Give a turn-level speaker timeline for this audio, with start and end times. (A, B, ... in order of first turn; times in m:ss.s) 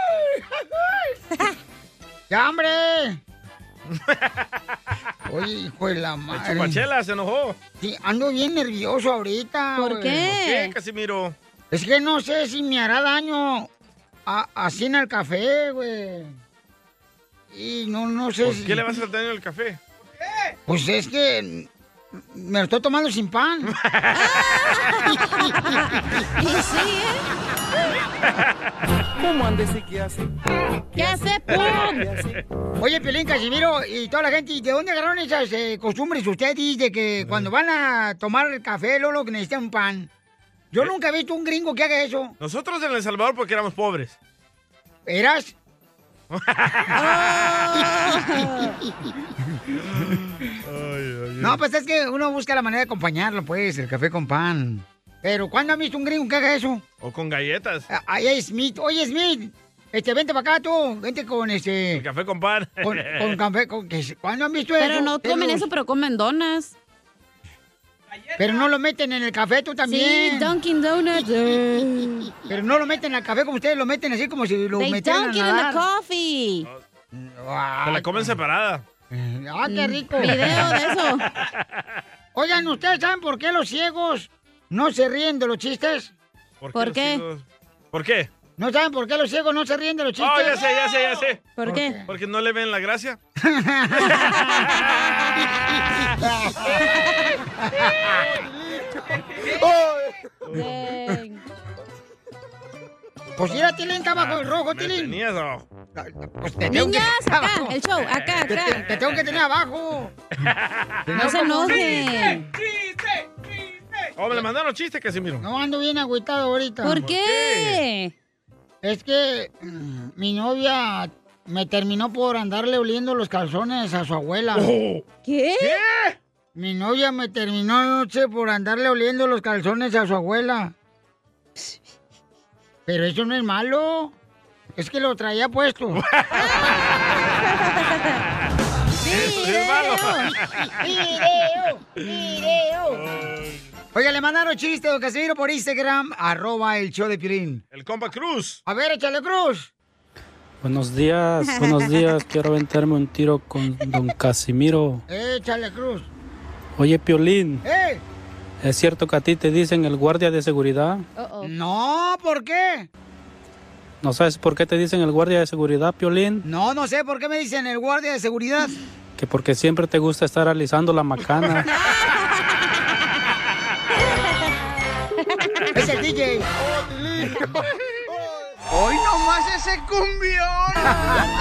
0:02.3-0:03.2 A
0:03.9-0:04.5 B
0:05.3-0:06.8 A
0:06.3-0:07.6 B
0:07.8-0:10.3 A
0:09.8-0:10.7 C
0:10.4-0:11.3 B
0:11.7-0:13.7 A
0:14.2-0:16.4 A
0:17.5-0:18.8 A
0:18.4-0:19.8 B
0:20.7-0:21.7 A
0:22.3-0:23.7 A
0:23.8-0:24.4 B
0:24.1-0:27.2 C
0:29.2-0:30.3 D
0:30.9-0:32.4 D
0:31.0-0:32.1 C
0:32.8-0:40.1 A
0:40.7-0:42.3 A
0:42.4-0:44.2 B
0:45.0-0:45.5 A
0:46.3-0:47.9 B
0:46.9-0:48.8 C
0:49.9-0:51.6 B
0:51.4-0:56.8 A
0:57.0-0:57.9 B
0:57.9-1:02.0 A
1:01.9-1:03.4 B
1:02.8-1:05.6 A
1:04.8-1:06.7 C
1:08.4-1:10.5 A
1:09.8-1:12.3 C
1:12.4-1:15.8 A
1:14.7-1:16.7 C
1:17.1-1:18.3 A
1:17.8-1:18.8 B
1:19.1-1:20.4 A
1:19.6-1:21.2 C
1:22.3-1:26.1 A
1:26.6-1:28.3 B
1:26.7-1:27.2 C
1:28.6-1:30.6 A
1:30.2-1:31.4 B
1:31.5-1:32.0 C
1:31.6-1:32.0 A
1:32.0-1:33.2 B
1:33.4-1:34.5 A
1:34.3-1:35.0 B
1:36.2-1:36.9 A
1:37.6-1:38.2 A
1:40.5-1:41.4 C
1:43.4-1:45.1 A
1:44.1-1:45.6 B
1:46.0-1:47.7 A
1:46.6-1:48.8 C
1:48.5-1:50.1 A
1:50.4-1:51.0 B
1:51.1-1:52.0 A
1:51.1-1:52.4 C
1:54.2-1:55.4 B
1:55.4-1:57.0 A
1:56.8-1:58.1 C
1:56.9-1:57.8 B
1:58.8-2:04.7 A
2:04.5-2:05.0 B
2:05.2-2:05.8 C
2:05.6-2:06.2 B
2:06.5-2:10.7 A
2:12.9-2:14.1 A
2:14.8-2:16.0 A
2:15.9-2:17.4 B
2:16.4-2:16.7 C
2:17.4-2:18.1 C
2:19.0-2:20.3 C
2:19.0-2:21.2 B
2:20.8-2:23.0 A
2:22.9-2:23.6 B
2:23.9-2:27.6 A
2:27.7-2:28.6 B
2:28.6-2:29.7 A
2:30.6-2:35.0 E
2:31.4-2:32.0 C
2:35.1-2:36.1 A
2:36.8-2:37.6 E
2:37.6-2:38.0 A
2:38.6-2:41.0 E
2:41.2-2:41.5 C
2:41.4-2:42.9 A
2:44.0-2:46.4 E
2:46.4-2:48.8 A
2:49.2-2:51.6 E
2:51.7-2:52.5 C
2:55.2-2:55.6 C
2:55.7-2:56.5 A
2:56.6-2:57.2 F
2:58.7-3:01.0 F